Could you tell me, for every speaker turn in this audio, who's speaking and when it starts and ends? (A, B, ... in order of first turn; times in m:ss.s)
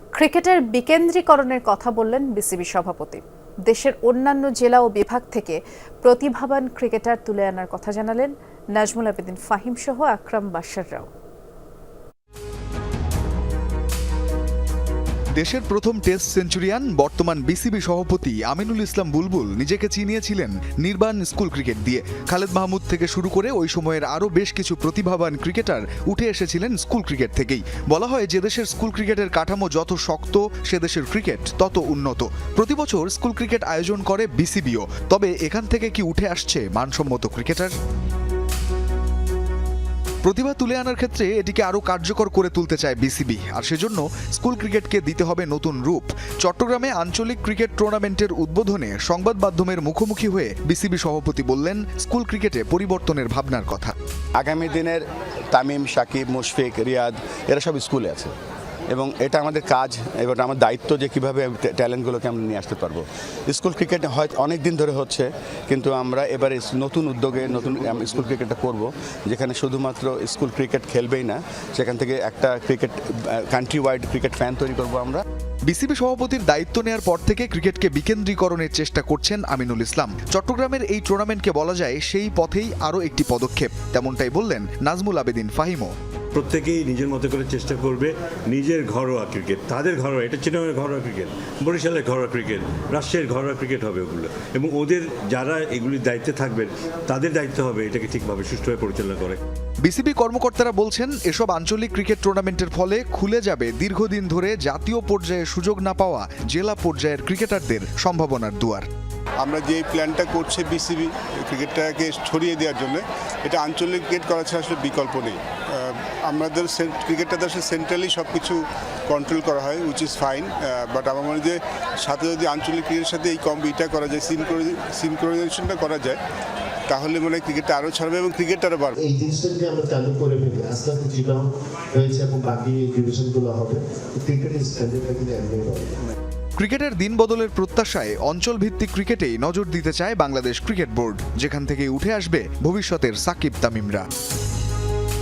0:00.1-0:11.1 A
0:15.4-0:37.7 B
0:40.2-0:53.9 B
0:54.4-0:58.3 C
0:58.9-1:15.2 C
1:15.7-1:25.9 B
1:26.3-1:39.4 D
1:39.8-1:48.8 B
1:49.4-1:55.4 E
1:56.3-1:58.6 E
1:59.1-2:06.2 E
2:06.9-2:08.9 E
2:09.0-2:15.9 F
2:16.6-2:24.0 B